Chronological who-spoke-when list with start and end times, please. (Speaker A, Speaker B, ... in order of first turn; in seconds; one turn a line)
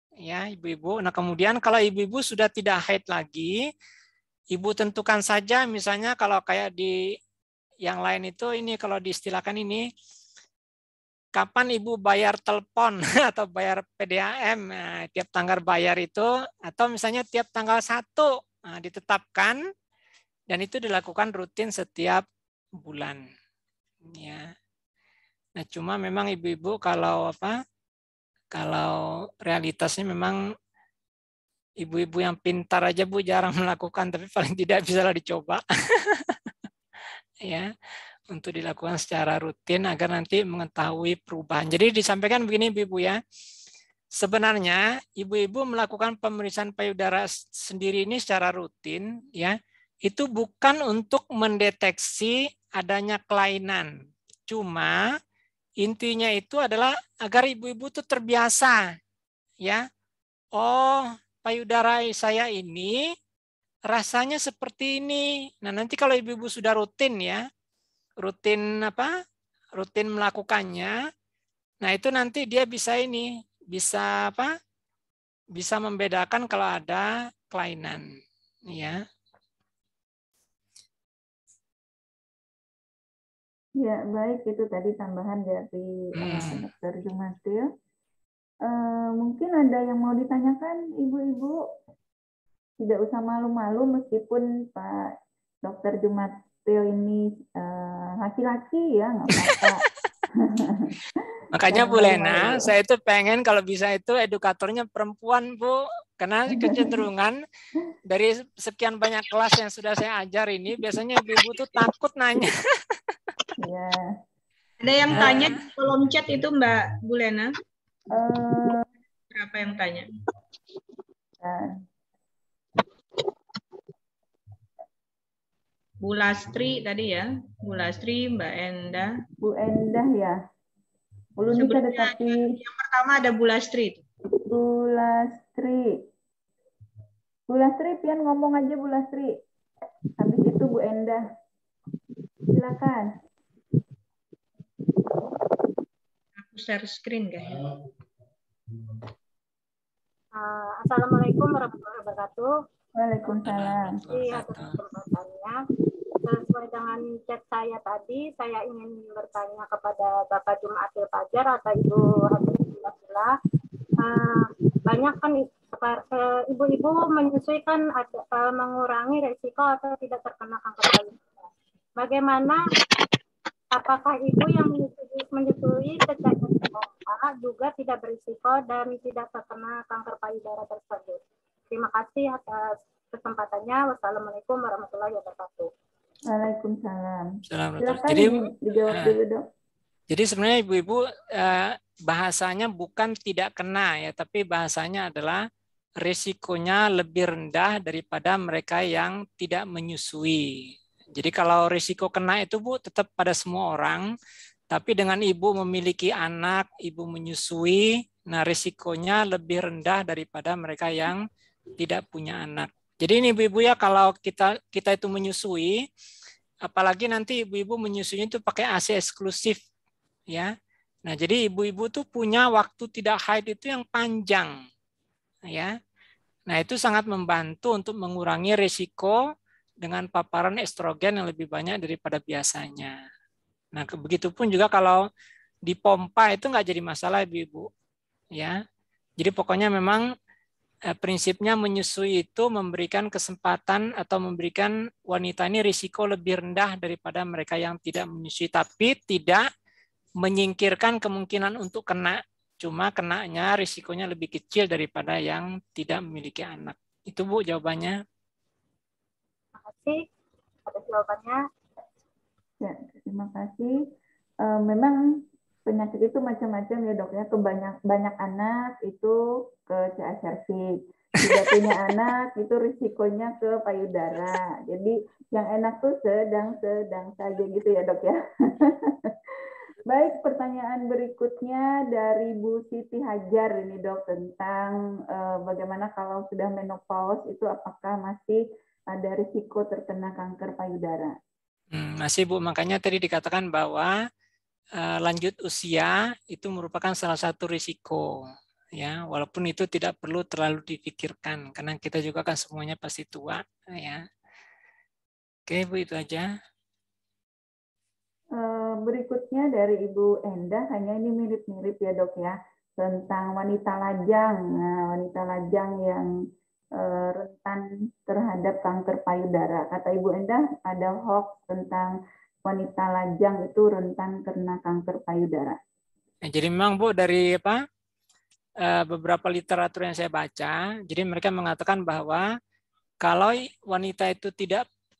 Speaker A: 0.2-3.5
Speaker A: 4.5-6.9
Speaker A: 7.8-9.8
Speaker A: 11.4-19.6
Speaker A: 20.5-22.2
Speaker A: 22.8-23.2
Speaker A: 24.1-24.5
Speaker A: 25.6-27.6
Speaker A: 28.5-30.4
Speaker A: 31.8-36.4
Speaker A: 37.5-37.7
Speaker A: 38.3-43.2
Speaker A: 44.2-53.9
Speaker A: 54.5-55.0
Speaker A: 55.8-58.8
Speaker A: 60.6-63.0
Speaker A: 63.9-67.4
Speaker A: 68.2-69.1
Speaker A: 69.8-71.0
Speaker A: 71.8-74.5
Speaker A: 75.6-78.0
Speaker A: 78.7-79.0
Speaker B: 83.8-87.6
Speaker A: 86.2-86.6
Speaker B: 88.7-91.6
Speaker B: 92.8-95.0
Speaker B: 95.6-99.8
Speaker B: 100.3-101.0
Speaker A: 101.5-107.4
Speaker B: 101.6-102.7
Speaker B: 106.5-107.0
Speaker A: 108.1-112.9
Speaker B: 113.6-114.1
Speaker C: 114.8-117.5
Speaker A: 115.1-115.5
Speaker B: 118.1-118.8
Speaker C: 119.3-120.1
Speaker B: 121.4-121.7
Speaker C: 126.0-129.1
Speaker B: 129.4-130.4
Speaker B: 131.4-132.4
Speaker C: 131.5-134.0
Speaker B: 134.4-135.9
Speaker B: 137.5-139.4
Speaker B: 140.2-141.2
Speaker B: 142.5-143.1
Speaker C: 146.4-147.7
Speaker D: 150.3-152.5
Speaker B: 152.9-153.9
Speaker A: 153.4-154.8
Speaker D: 154.1-155.6
Speaker D: 156.2-163.3
Speaker D: 164.0-171.4
Speaker D: 172.0-172.6
Speaker D: 173.7-185.7
Speaker B: 186.3-187.3
Speaker A: 187.5-189.2
Speaker B: 187.8-189.4
Speaker A: 190.1-195.4
Speaker A: 196.0-204.1
Speaker A: 204.7-211.2
Speaker A: 211.8-215.8
Speaker A: 216.7-219.6
Speaker A: 221.1-224.5
Speaker A: 226.5-229.2
Speaker A: 229.8-232.9
Speaker A: 233.7-235.0
Speaker A: 235.7-237.7
Speaker A: 239.2-240.1
Speaker A: 240.9-249.4
Speaker A: 250.2-258.0
Speaker D: 259.6-260.0
Speaker D: 260.6-261.4
Speaker B: 262.6-263.7
Speaker B: 264.4-265.0
Speaker B: 265.6-278.9
Speaker A: 271.2-271.5
Speaker B: 279.9-288.4
Speaker B: 288.9-291.1
Speaker A: 291.7-293.9
Speaker A: 294.8-298.1
Speaker A: 298.8-304.0
Speaker A: 305.5-306.3
Speaker B: 308.4-316.1
Speaker B: 316.8-321.9
Speaker B: 322.4-325.6
Speaker A: 326.3-327.6
Speaker A: 328.6-332.3
Speaker A: 333.0-334.6